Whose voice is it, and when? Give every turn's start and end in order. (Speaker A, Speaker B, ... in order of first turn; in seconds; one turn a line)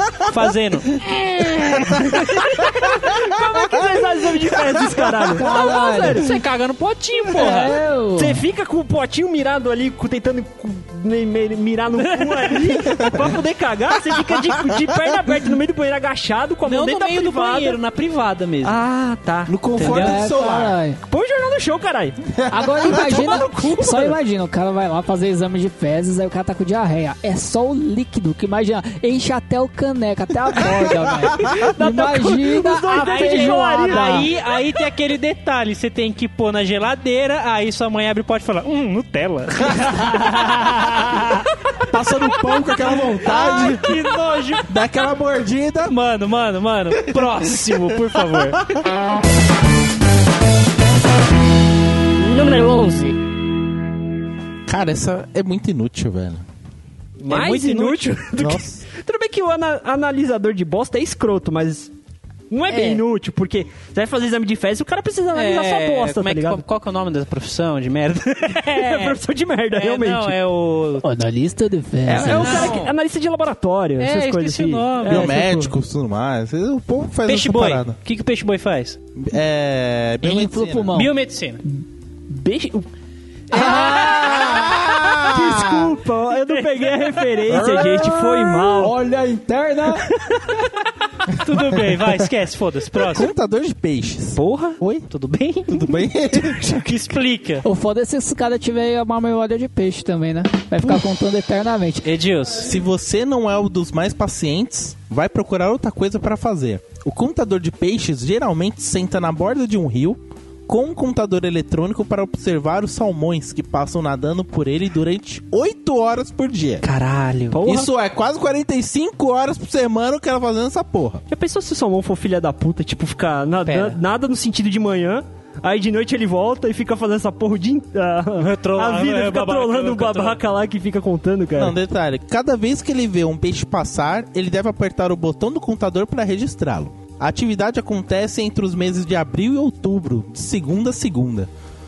Speaker A: 0.2-1.0
Speaker B: 1.1-2.0
Speaker A: 1.9-2.2
Speaker C: 2.3-6.3
Speaker D: 5.3-6.3
Speaker A: 5.5-7.8
Speaker D: 7.3-8.4
Speaker C: 8.2-17.8
Speaker A: 12.1-12.7
Speaker B: 13.0-13.2
Speaker A: 16.6-18.8
Speaker C: 18.6-19.6
Speaker B: 19.5-20.8
Speaker A: 19.8-20.2
Speaker D: 19.8-21.0
Speaker C: 21.1-22.2
Speaker B: 22.4-22.9
Speaker D: 22.5-34.3
Speaker C: 22.8-24.2
Speaker C: 31.5-34.3
Speaker A: 33.0-41.5
Speaker B: 41.9-44.0
Speaker A: 42.8-45.0
Speaker B: 44.7-45.9
Speaker A: 45.9-48.7
Speaker B: 47.1-47.5
Speaker C: 52.4-53.0
Speaker B: 54.7-56.4
Speaker C: 57.2-61.9
Speaker A: 57.2-58.2
Speaker B: 58.4-58.8
Speaker C: 62.5-66.6
Speaker A: 62.7-63.0
Speaker A: 65.3-69.2
Speaker C: 68.5-70.4
Speaker A: 69.7-71.1
Speaker D: 71.0-72.8
Speaker C: 72.1-75.7
Speaker A: 72.1-72.9
Speaker A: 74.0-75.5
Speaker B: 75.0-78.0
Speaker A: 77.2-79.0
Speaker B: 79.2-80.9
Speaker D: 80.2-81.1
Speaker A: 80.9-81.6
Speaker C: 82.3-82.9
Speaker D: 83.5-84.8
Speaker A: 83.5-84.8
Speaker B: 83.6-85.9
Speaker C: 85.2-89.0
Speaker A: 86.5-87.4
Speaker B: 87.5-88.2
Speaker D: 87.6-90.1
Speaker C: 90.1-90.7
Speaker A: 91.3-93.3
Speaker B: 91.5-92.2
Speaker B: 93.0-95.1
Speaker C: 94.4-94.8
Speaker A: 95.1-97.7
Speaker B: 95.7-96.9
Speaker D: 97.6-102.1
Speaker A: 102.0-102.8
Speaker B: 102.6-116.9
Speaker A: 116.8-117.6
Speaker C: 117.5-117.9
Speaker B: 117.6-121.2
Speaker C: 121.3-131.8
Speaker A: 123.7-124.0
Speaker A: 128.4-130.4
Speaker B: 131.6-141.5